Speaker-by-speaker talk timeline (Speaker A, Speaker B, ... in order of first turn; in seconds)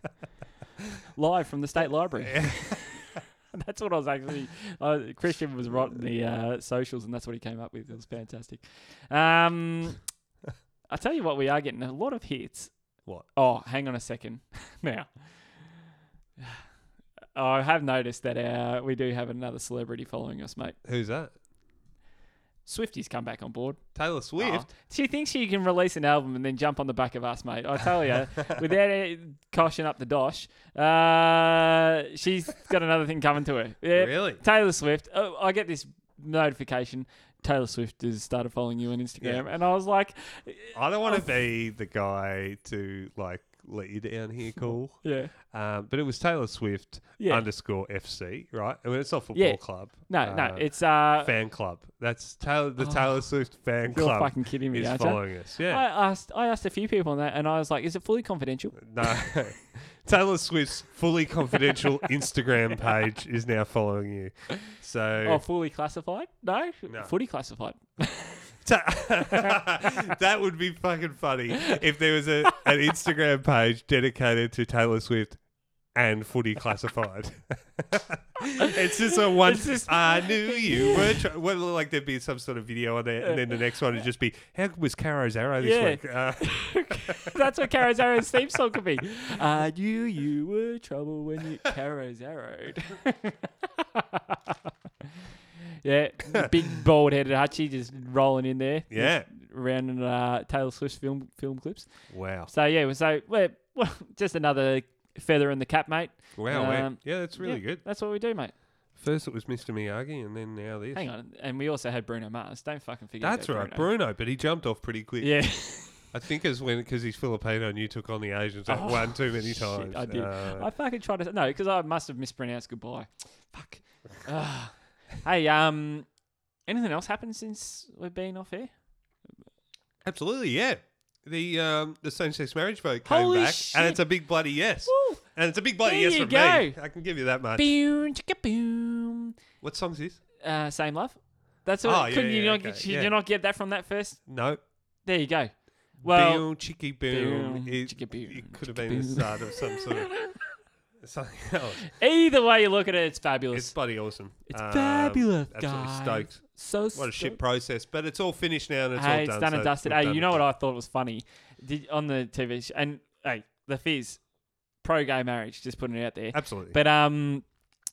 Speaker A: 1.1-10.0, 10.9-12.7, 13.3-15.1, 17.4-20.8, 22.6-23.8, 24.4-41.3, 44.6-45.3, 47.2-47.5, 49.3-51.3, 52.8-53.3, 53.9-58.9, 65.2-68.5, 69.3-69.6, 79.4-81.2, 85.6-94.6, 95.8-101.9, 102.5-108.5, 110.9-113.9, 115.2-116.1, 118.7-126.1, 126.7-128.7, 133.1-134.0, 134.9-135.2, 135.8-136.8, 137.6-139.3, 140.4-144.2, 145.1-146.5, 147.0-150.4, 151.9-153.8, 154.5-157.4, 158.9-164.2, 164.8-167.5
Speaker B: 2.2-3.2, 20.9-21.3, 23.9-24.7, 33.9-34.4, 39.2-39.5, 40.7-55.8, 58.8-65.4, 68.6-75.4, 75.9-87.4, 98.9-99.3, 102.1-102.5, 106.4-107.8, 109.0-111.1, 113.2-120.7, 130.0-137.7, 139.6-140.2, 141.8-143.2, 144.3-144.6, 146.1-150.1, 151.0-151.9, 153.5-160.4, 166.3-166.8